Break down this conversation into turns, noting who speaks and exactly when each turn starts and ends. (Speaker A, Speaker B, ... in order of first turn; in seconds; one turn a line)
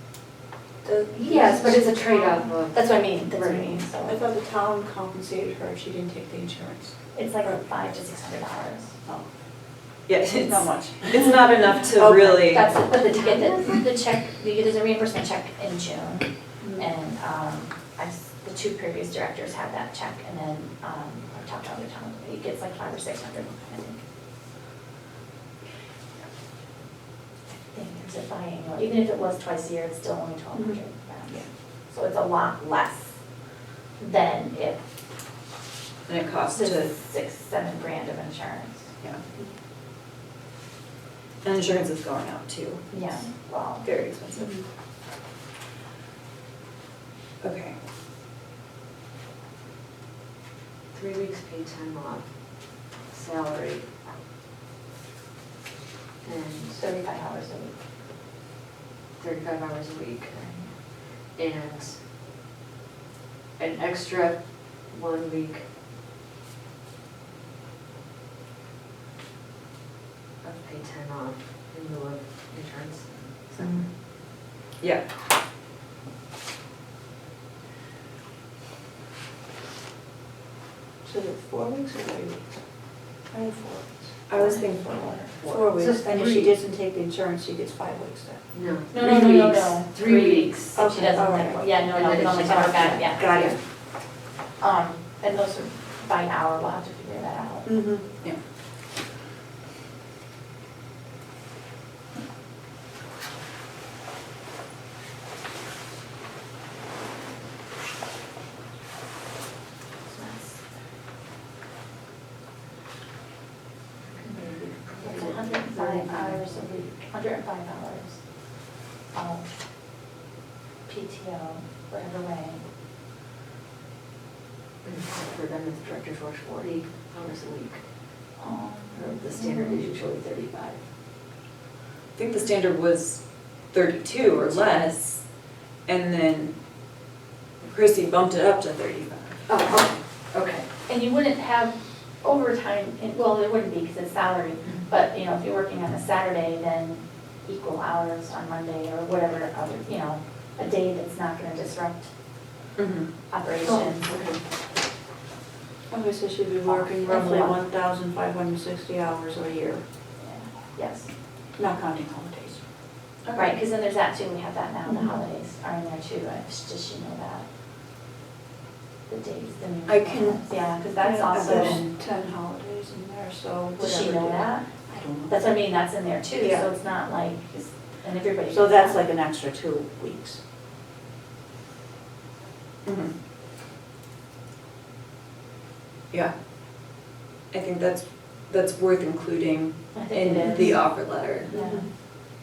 Speaker A: 0.8-2.3
Speaker B: 1.1-1.9
Speaker C: 1.2-3.0
Speaker B: 2.7-4.2
Speaker A: 3.3-7.6
Speaker B: 7.1-8.9
Speaker D: 10.1-12.8
Speaker A: 10.4-11.3
Speaker A: 11.9-13.2
Speaker B: 12.5-24.0
Speaker B: 27.5-33.2
Speaker A: 30.5-30.8
Speaker B: 34.0-34.8
Speaker D: 36.1-36.9
Speaker B: 36.5-38.9
Speaker D: 41.4-43.0
Speaker B: 42.9-43.9
Speaker D: 43.8-44.6
Speaker A: 44.4-44.6
Speaker D: 47.4-47.8
Speaker C: 50.9-53.9
Speaker C: 56.2-56.8
Speaker B: 56.7-57.8
Speaker C: 59.2-62.0
Speaker C: 63.6-65.7
Speaker C: 70.4-73.9
Speaker D: 73.6-74.0
Speaker A: 81.0-82.5
Speaker A: 83.3-84.2
Speaker D: 84.3-85.3
Speaker B: 84.3-85.3
Speaker C: 85.3-86.6
Speaker A: 85.5-88.5
Speaker C: 88.5-90.8
Speaker B: 88.9-93.5
Speaker A: 90.8-91.7
Speaker C: 91.9-93.5
Speaker D: 93.2-93.5
Speaker B: 94.6-97.7
Speaker D: 97.7-98.4
Speaker B: 110.0-110.7
Speaker C: 114.0-116.7
Speaker B: 115.0-118.2
Speaker B: 119.1-119.5
Speaker B: 120.9-122.6
Speaker C: 124.8-127.8
Speaker B: 128.4-129.8
Speaker C: 128.9-130.8
Speaker D: 132.2-136.6
Speaker C: 134.2-134.7
Speaker D: 137.6-139.4
Speaker C: 139.5-140.7
Speaker B: 140.9-152.1
Speaker D: 152.8-153.1
Speaker B: 153.3-154.2
Speaker C: 153.6-154.4
Speaker A: 155.9-159.8
Speaker B: 156.7-157.6
Speaker B: 160.2-161.1
Speaker A: 161.6-162.6
Speaker D: 163.2-163.6
Speaker B: 163.3-167.5
Speaker A: 164.8-165.2
Speaker B: 169.1-171.9
Speaker D: 169.9-170.4
Speaker A: 170.8-175.4
Speaker D: 171.3-171.8
Speaker B: 173.8-174.7
Speaker B: 175.3-179.0
Speaker A: 176.4-176.7
Speaker A: 178.5-180.4
Speaker D: 182.8-183.1
Speaker D: 187.5-191.8
Speaker B: 189.9-191.8
Speaker A: 190.5-190.9
Speaker A: 191.4-191.9